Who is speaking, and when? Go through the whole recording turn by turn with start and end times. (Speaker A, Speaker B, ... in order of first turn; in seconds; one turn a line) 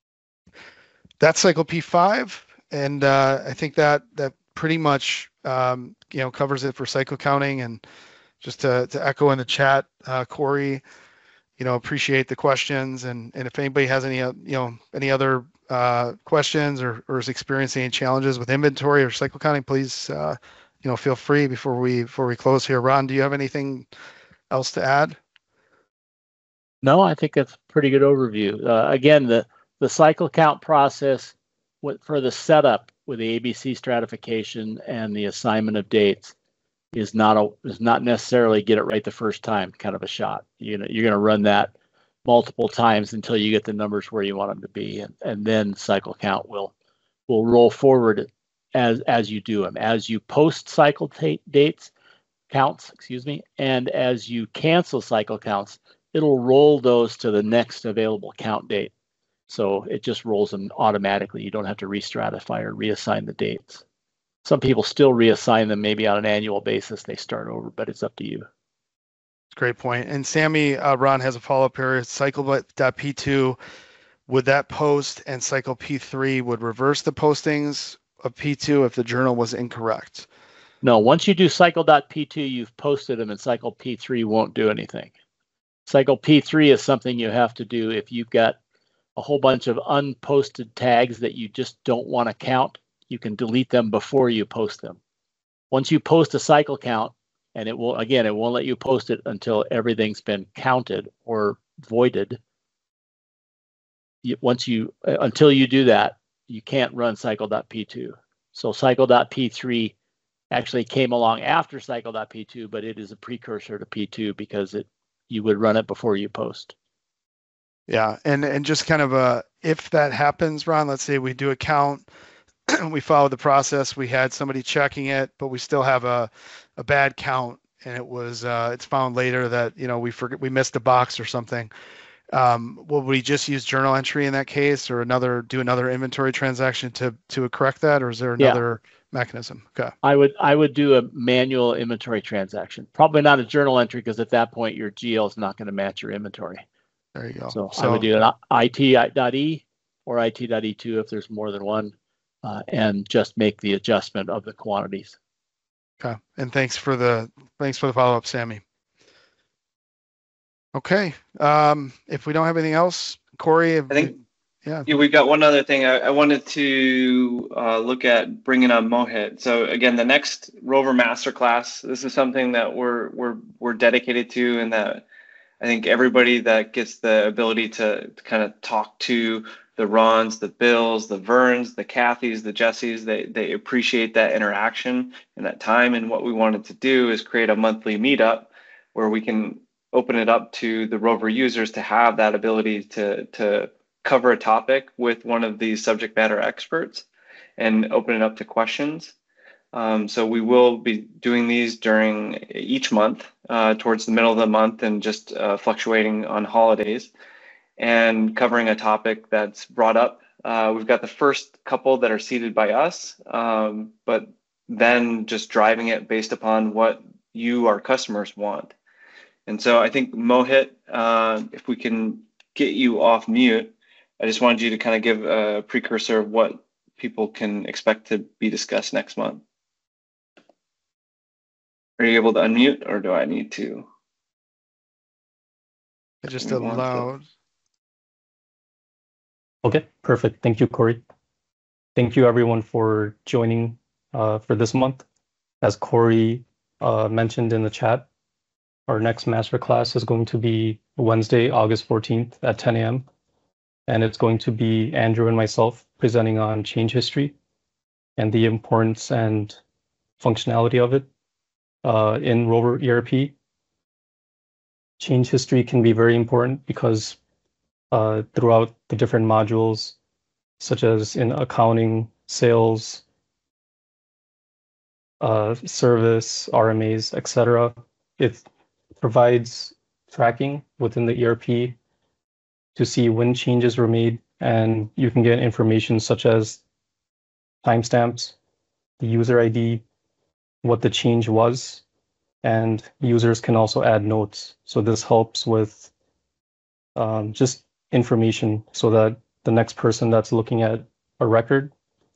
Speaker A: 1.2-7.8
Speaker A: 8.4-10.8
Speaker A: 11.6-23.9
Speaker A: 24.5-25.2
Speaker B: 26.8-36.3
Speaker B: 36.9-41.7
Speaker B: 42.2-46.7
Speaker B: 47.3-51.9
Speaker B: 52.5-58.9
Speaker B: 59.5-63.8
Speaker B: 64.4-68.5
Speaker A: 69.5-73.6
Speaker A: 74.3-80.3
Speaker B: 80.8-85.1
Speaker B: 85.9-88.6
Speaker B: 89.2-95.0
Speaker B: 95.7-102.4
Speaker B: 104.2-110.0
Speaker B: 110.5-116.7
Speaker A: 117.9-122.1
Speaker A: 122.7-131.7
Speaker A: 132.3-139.9
Speaker B: 140.0-146.6
Speaker A: 147.2-148.1
Speaker B: 147.5-155.2
Speaker A: 156.0-158.6
Speaker A: 160.7-164.9
Speaker C: 164.8-175.1
Speaker C: 175.6-197.1
Speaker C: 197.6-199.1
Speaker C: 199.7-207.1
Speaker C: 207.8-218.7
Speaker C: 219.5-229.4
Speaker C: 232.0-233.9
Speaker A: 236.2-237.2
Speaker C: 236.4-237.1
Speaker D: 239.6-241.0
Speaker D: 242.0-245.0
Speaker D: 245.6-248.1
Speaker D: 248.9-253.1
Speaker D: 253.9-257.4
Speaker D: 258.2-259.6
Speaker D: 260.2-261.1
Speaker D: 261.8-263.3
Speaker D: 265.0-267.2
Speaker D: 267.9-270.0
Speaker D: 270.6-273.0
Speaker D: 275.2-278.4
Speaker D: 279.0-281.8
Speaker D: 282.8-286.6
Speaker D: 287.6-288.4
Speaker D: 289.0-289.8
Speaker D: 290.6-291.8
Speaker D: 292.4-295.9
Speaker D: 297.0-301.7